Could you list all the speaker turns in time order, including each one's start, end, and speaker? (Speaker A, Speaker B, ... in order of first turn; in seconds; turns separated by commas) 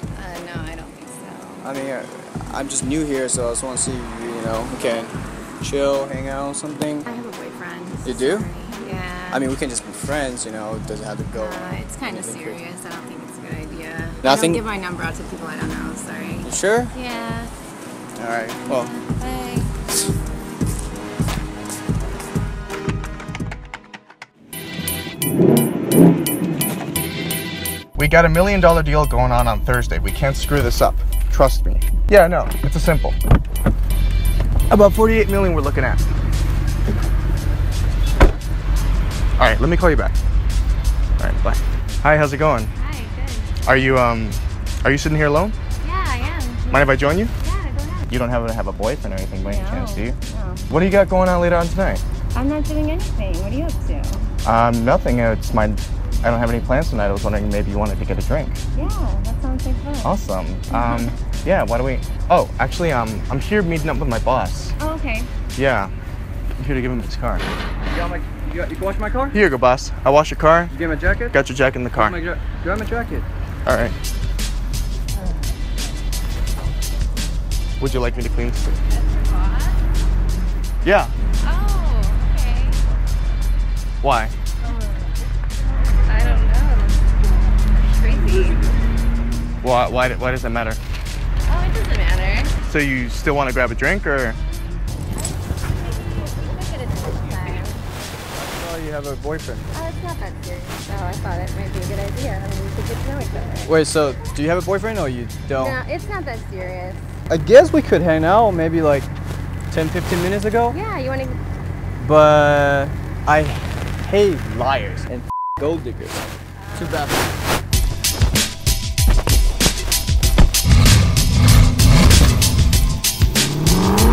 Speaker A: 0.1-1.7, Speaker B: 1.6-7.1, Speaker A: 7.0-9.5, Speaker B: 8.1-8.5, Speaker B: 9.3-12.6, Speaker A: 11.3-17.5, Speaker B: 14.2-14.6, Speaker B: 16.4-16.9, Speaker B: 18.2-18.9, Speaker A: 18.7-19.7, Speaker C: 27.9-33.2, Speaker C: 34.7-36.1, Speaker C: 39.4-40.1, Speaker C: 41.2-42.7, Speaker A: 42.7-43.5, Speaker C: 43.6-45.5, Speaker A: 45.8-48.1, Speaker C: 46.7-47.3, Speaker C: 48.1-50.2, Speaker A: 49.5-50.6, Speaker C: 50.7-52.0, Speaker A: 52.3-54.3, Speaker C: 54.4-58.6, Speaker A: 58.8-60.2, Speaker C: 60.0-64.8, Speaker A: 60.7-61.1, Speaker A: 64.8-65.3, Speaker C: 65.6-65.9, Speaker C: 66.6-67.5, Speaker B: 67.9-69.4, Speaker C: 69.3-70.7, Speaker B: 70.7-71.4, Speaker C: 71.3-72.2, Speaker B: 71.9-73.2, Speaker C: 73.7-74.0, Speaker C: 77.8-78.8, Speaker A: 78.9-79.8, Speaker C: 80.8-81.1, Speaker A: 81.4-82.8, Speaker C: 84.0-84.3, Speaker A: 86.1-87.0, Speaker A: 87.8-88.6, Speaker C: 89.6-90.8, Speaker A: 91.5-92.5, Speaker C: 92.6-94.4, Speaker A: 95.8-97.8, Speaker B: 98.3-99.7, Speaker A: 99.7-103.8, Speaker B: 103.7-105.8, Speaker A: 105.5-107.1, Speaker B: 107.3-109.1, Speaker B: 109.7-110.8, Speaker A: 110.7-111.4, Speaker B: 112.0-116.2, Speaker A: 116.6-117.1, Speaker B: 116.8-117.2